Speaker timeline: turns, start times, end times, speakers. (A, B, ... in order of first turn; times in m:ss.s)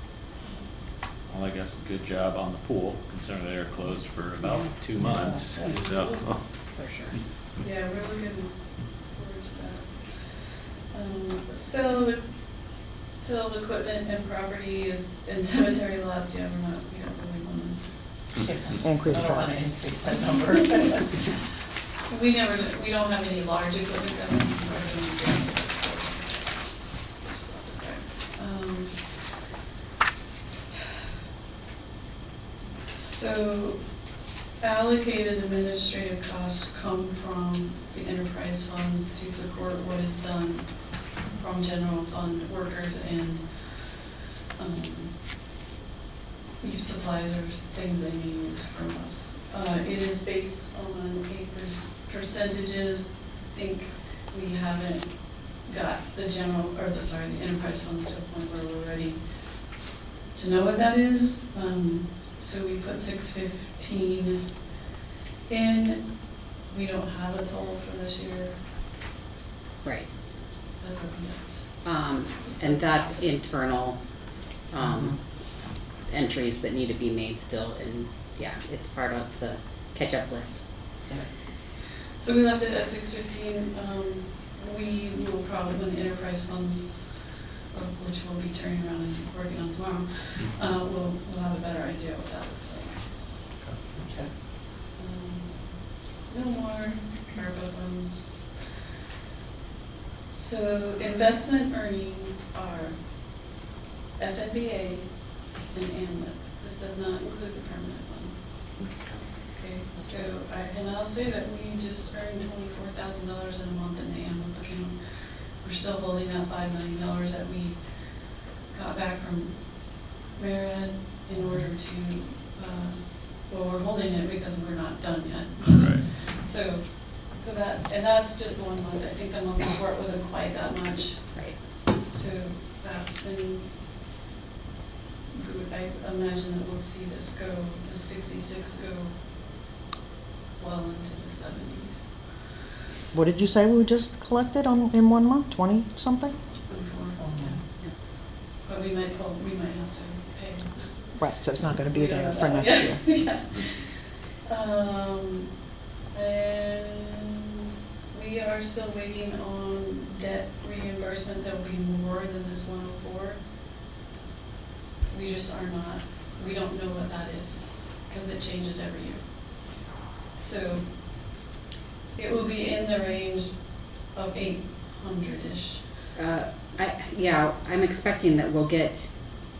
0:01.3-0:06.4 A
0:05.1-0:05.7 B
0:05.6-0:06.2 C
0:06.7-0:07.2 C
0:07.6-0:18.2 D
0:18.4-0:21.1 B
0:18.8-0:19.5 E
0:22.1-0:29.3 D
0:32.9-0:33.9 D
0:34.6-0:45.2 D
0:46.6-0:59.2 D
1:00.3-1:04.5 D
1:05.5-1:08.6 D
1:10.8-1:13.4 D
1:11.8-1:14.0 C
1:14.7-1:15.2 C
1:14.8-1:15.1 B
1:16.1-1:20.6 C
1:22.2-1:33.3 D
1:34.0-1:34.3 B
1:35.0-1:35.8 D
1:36.3-1:38.8 D
1:40.3-1:43.0 D
1:44.2-1:45.1 D
1:45.7-1:48.4 D
1:49.6-2:13.7 D
2:05.7-2:06.0 A
2:15.3-2:19.2 D
2:20.6-2:22.1 D
2:23.1-2:26.3 E
2:26.7-2:27.6 D
2:27.2-2:27.6 B
2:28.6-2:31.1 D
2:31.2-2:33.2 E
2:31.9-2:35.5 D
2:36.1-2:37.4 D
2:38.1-2:43.4 D
2:45.1-2:49.2 D
2:50.4-2:50.9 D
2:52.2-2:53.5 D
2:54.1-2:55.8 D
2:56.2-2:59.1 C